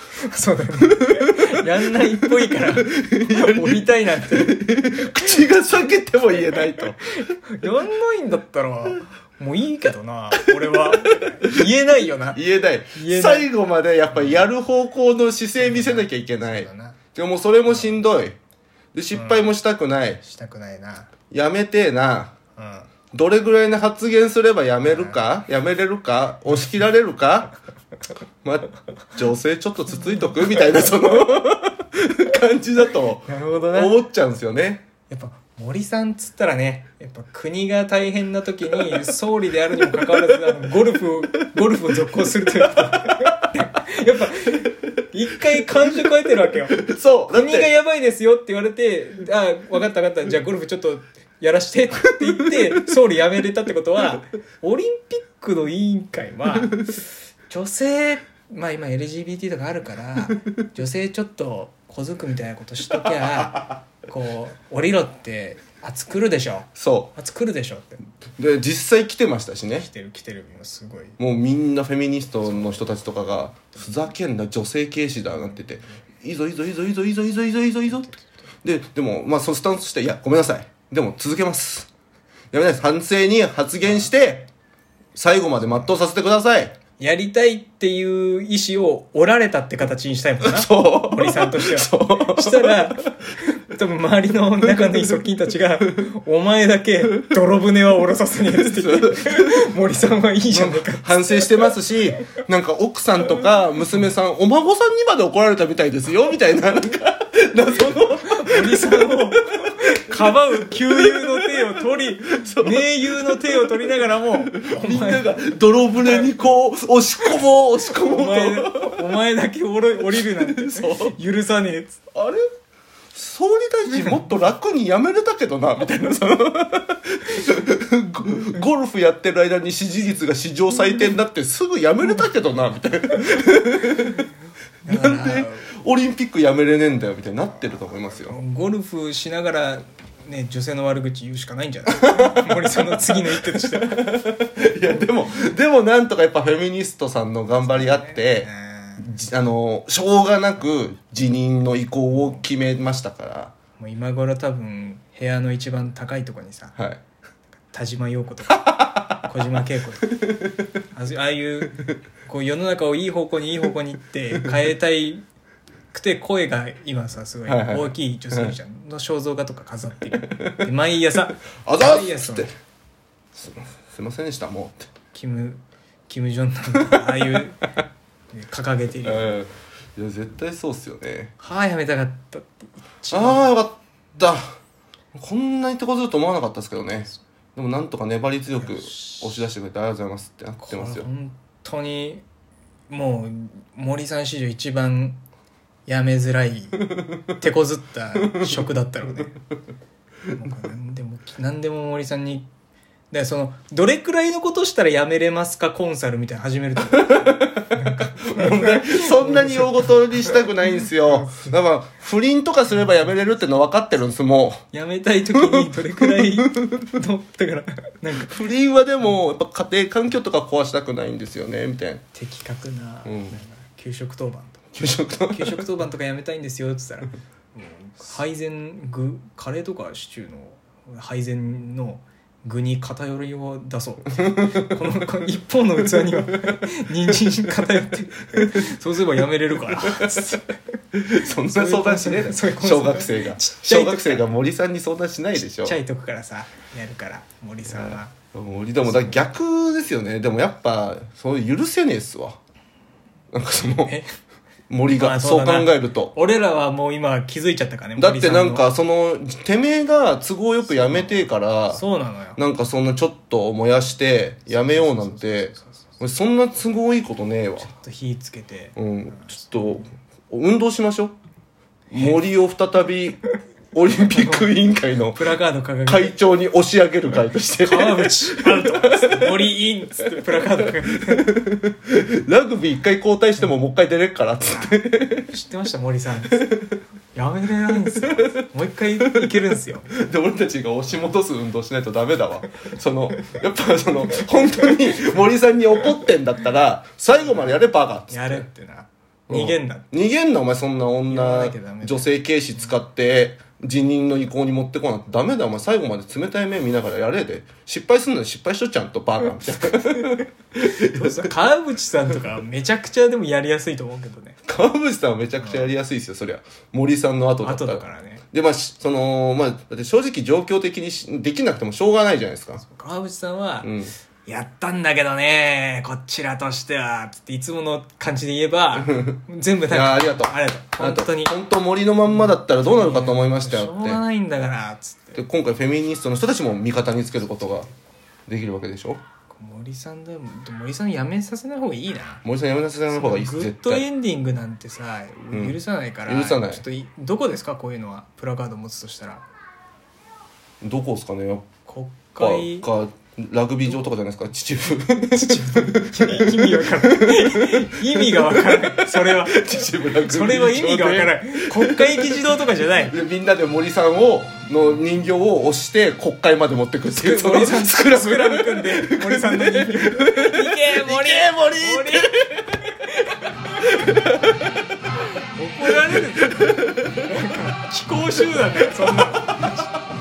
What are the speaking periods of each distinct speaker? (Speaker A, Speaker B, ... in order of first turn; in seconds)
Speaker A: 0.2-4.6, 6.3-6.8, 7.5-12.4, 12.9-13.5, 14.1-14.4, 15.6-17.0, 17.7-18.0, 19.1-19.5, 20.2-21.1, 22.6-22.9, 24.8-25.2, 33.2-34.0, 35.1-46.8, 47.3-56.8, 57.5-68.0, 69.7-71.2, 72.5-72.9, 75.3-76.0, 87.0-101.7, 107.7-116.3, 117.9-122.0, 134.8-135.7, 138.0-143.9, 147.6-149.1, 153.8-156.8, 157.7-160.2, 160.9-165.2, 165.9-172.5, 175.1-177.7, 178.3-179.3, 181.4-183.5, 188.6-189.5, 190.6-192.2, 192.9-195.2, 195.8-196.8, 197.3-199.4, 200.3-202.5, 203.1-211.6, 214.7-218.4, 222.1-224.6, 225.3-240.5, 241.4-244.2, 245.5-248.1, 248.8-249.2, 253.8-254.1, 254.8-258.7, 260.8-262.4, 264.4-266.0, 267.6-269.8, 271.9-272.2, 274.1-274.6, 275.1-276.2, 277.5-281.4, 284.5-286.5, 287.1-289.9, 298.1-299.9, 301.1-302.1, 310.9-314.4, 315.4-315.7, 317.4-318.2, 322.6-323.7, 324.2-331.3, 332.1-335.2, 337.4-337.7, 339.3-342.2, 342.9-349.2, 351.7-352.7, 353.6-353.9, 355.1-362.9, 366.9-374.1, 375.4-379.6
Speaker B: 2.5-7.1, 12.3-18.4, 18.9-20.2, 21.3-22.3, 23.1-27.5, 28.4-34.9, 46.8-47.7, 66.8-67.1, 68.4-69.8, 71.2-81.9, 82.5-84.5, 85.1-86.7, 90.4-92.9, 98.5-99.5, 100.5-109.7, 110.8-113.6, 114.5-119.0, 120.0-121.1, 122.1-122.4, 123.1-134.2, 134.9-138.4, 142.2-153.5, 158.7-159.2, 167.4-168.6, 170.2-170.6, 171.6-172.5, 173.3-174.8, 179.0-181.3, 183.1-184.6, 185.1-191.1, 206.9-214.6, 215.4-216.8, 218.2-222.0, 223.0-223.4, 224.7-225.6, 239.8-240.3, 240.9-245.8, 247.6-252.4, 253.3-254.0, 254.7-256.1, 258.0-261.8, 262.4-267.7, 268.8-271.1, 271.9-273.2, 273.7-275.2, 275.9-279.5, 280.9-285.3, 289.9-298.5, 299.3-311.1, 314.5-322.6, 323.6-323.9, 328.8-334.0, 335.1-337.7, 338.3-339.0, 342.2-343.8, 345.3-346.6, 350.6-351.5, 352.1-362.1, 362.9-372.4, 376.2-377.0, 378.9-379.6